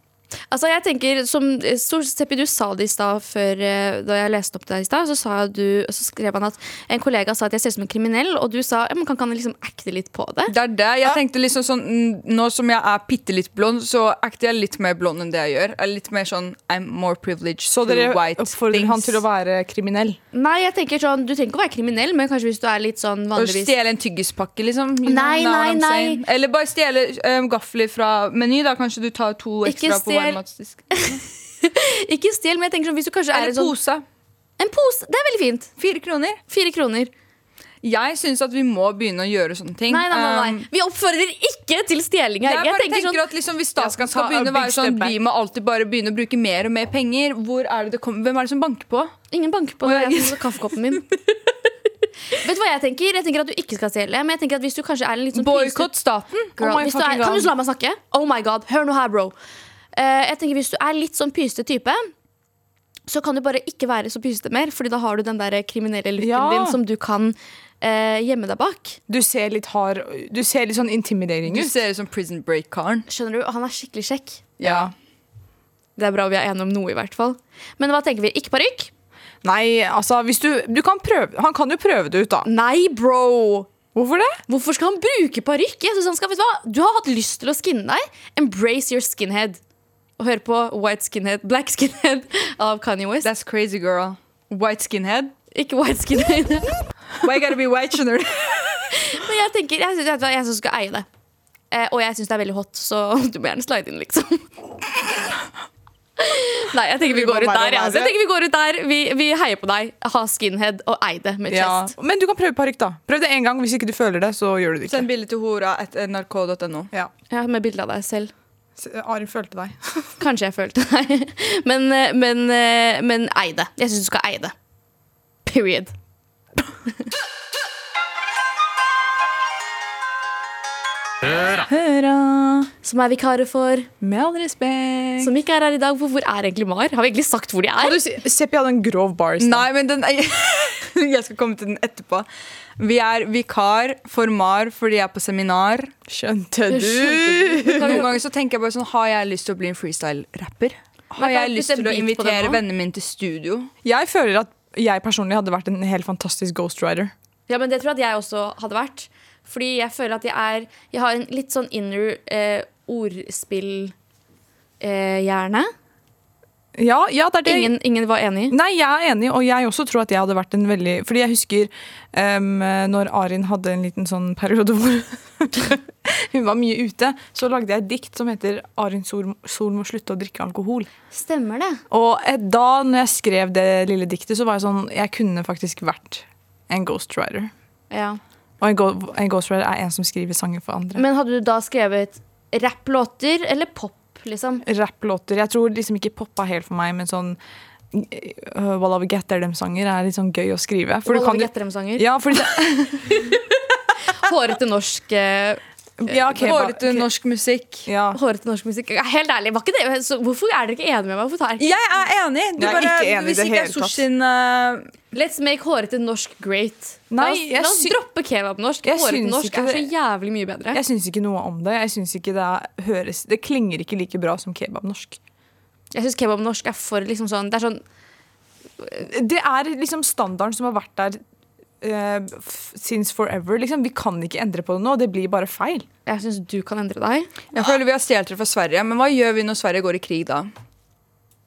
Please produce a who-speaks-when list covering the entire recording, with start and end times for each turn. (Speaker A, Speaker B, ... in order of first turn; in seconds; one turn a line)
Speaker A: 0.5-10.5
Speaker B: 10.5-19.2
Speaker C: 17.7-20.2
Speaker A: 20.3-23.7
Speaker B: 23.3-30.9
Speaker A: 25.1-26.2
Speaker A: 29.6-30.4
Speaker A: 30.9-33.7
Speaker B: 33.3-34.0
Speaker A: 34.6-35.7
Speaker B: 35.8-36.4
Speaker A: 36.5-37.1
Speaker B: 37.8-40.6
Speaker A: 39.9-43.2
Speaker B: 42.4-49.1
Speaker C: 43.8-45.2
Speaker A: 49.3-51.0
Speaker B: 49.8-50.7
Speaker A: 52.3-55.9
Speaker B: 55.3-56.5
Speaker C: 56.6-57.5
Speaker A: 56.6-59.3
Speaker A: 59.9-62.1
Speaker A: 63.1-69.0
Speaker C: 66.2-66.8
Speaker C: 69.1-71.8
Speaker B: 71.5-73.0
Speaker A: 73.1-74.5
Speaker B: 74.6-74.9
Speaker C: 74.6-74.9
Speaker A: 76.0-78.9
Speaker C: 79.4-82.5
Speaker A: 82.5-83.7
Speaker C: 83.9-84.4
Speaker A: 84.5-89.6
Speaker A: 90.2-93.3
Speaker B: 93.2-95.3
Speaker A: 95.5-96.7
Speaker B: 97.2-98.9
Speaker A: 99.0-101.0
Speaker A: 101.7-104.5
Speaker A: 106.2-111.9
Speaker C: 107.0-108.2
Speaker C: 111.5-115.1
Speaker B: 114.9-116.9
Speaker A: 117.3-118.3
Speaker C: 118.8-120.1
Speaker A: 120.2-124.5
Speaker A: 125.4-125.9
Speaker C: 131.2-132.7
Speaker A: 132.8-133.9
Speaker C: 134.0-135.3
Speaker A: 135.2-138.0
Speaker C: 137.8-139.7
Speaker B: 139.4-142.3
Speaker B: 142.8-145.9
Speaker C: 146.1-148.1
Speaker A: 146.7-148.1
Speaker B: 147.7-153.7
Speaker A: 151.2-152.6
Speaker C: 153.8-157.1
Speaker A: 157.5-163.9
Speaker A: 164.8-165.7
Speaker C: 166.7-167.8
Speaker A: 167.4-168.6
Speaker C: 168.5-180.9
Speaker A: 181.1-181.8
Speaker C: 181.9-187.5
Speaker A: 187.9-188.2
Speaker C: 188.6-191.0
Speaker A: 190.9-194.6
Speaker C: 194.6-197.4
Speaker C: 197.9-203.1
Speaker A: 201.0-202.4
Speaker A: 203.1-203.5
Speaker A: 204.0-206.7
Speaker C: 206.0-207.1
Speaker B: 206.4-207.9
Speaker C: 207.9-208.2
Speaker A: 208.1-211.8
Speaker B: 211.6-214.9
Speaker C: 212.6-214.0
Speaker A: 215.1-220.8
Speaker C: 217.1-218.0
Speaker C: 218.8-219.9
Speaker C: 220.7-225.2
Speaker A: 225.9-227.8
Speaker C: 228.9-231.2
Speaker C: 231.8-235.9
Speaker A: 236.1-237.4
Speaker B: 237.5-240.5